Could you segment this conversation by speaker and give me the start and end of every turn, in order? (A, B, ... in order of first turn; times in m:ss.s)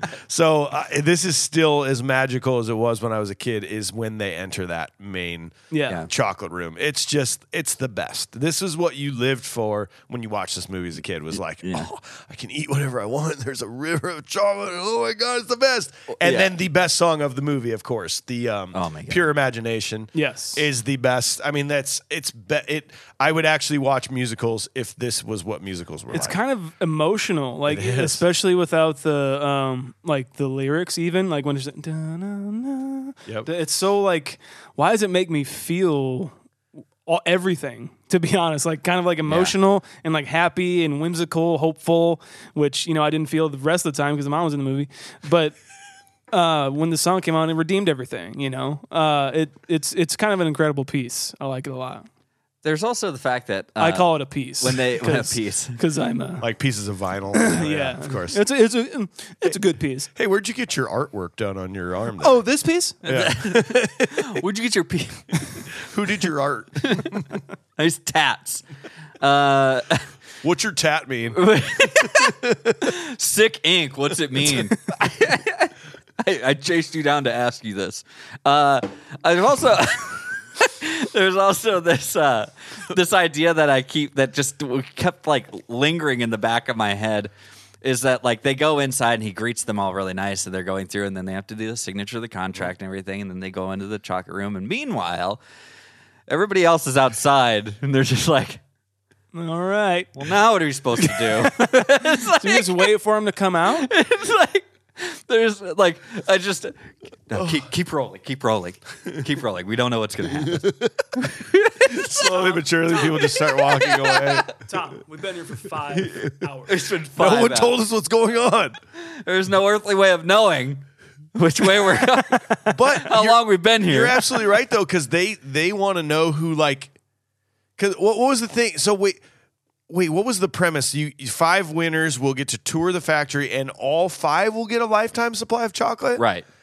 0:00.3-0:26.4 A
0:05.7-0:06.0 B
0:11.6-0:11.9 C
0:16.2-0:16.5 C
0:18.7-0:19.3 C
0:20.1-0:20.6 B
0:26.1-0:36.3 B
0:27.7-0:28.2 A
0:37.0-0:45.6 B
0:39.3-0:39.5 C
0:46.3-0:52.0 B
0:52.6-0:54.1 C
0:53.8-0:56.4 B
0:54.6-0:55.8 C
0:56.4-0:58.4 A
0:57.3-1:00.1 B
1:00.1-1:02.4 A
1:02.2-1:03.0 B
1:03.0-1:04.3 A
1:03.0-1:05.7 C
1:05.8-1:07.3 A
1:06.8-1:07.1 C
1:07.8-1:08.6 C
1:09.2-1:10.0 C
1:10.4-1:11.4 A
1:11.3-1:27.3 C
1:12.0-1:12.8 A
1:27.8-1:35.4 C
1:36.3-1:38.6 C
1:39.3-1:40.2 B
1:40.2-1:42.9 C
1:41.0-1:43.9 B
1:43.7-1:50.7 C
1:50.3-1:51.0 A
1:51.2-1:52.3 C
1:51.9-1:54.5 A
1:52.3-1:53.1 B
1:53.8-1:54.5 C
1:54.5-1:56.8 B
1:55.9-1:56.3 A
1:56.7-1:57.8 C
1:57.2-1:58.8 A
1:59.2-2:00.8 C
2:01.3-2:04.3 C
2:02.7-2:06.9 A
2:07.8-2:09.2 A
2:09.9-2:16.2 A
2:16.2-2:16.4 C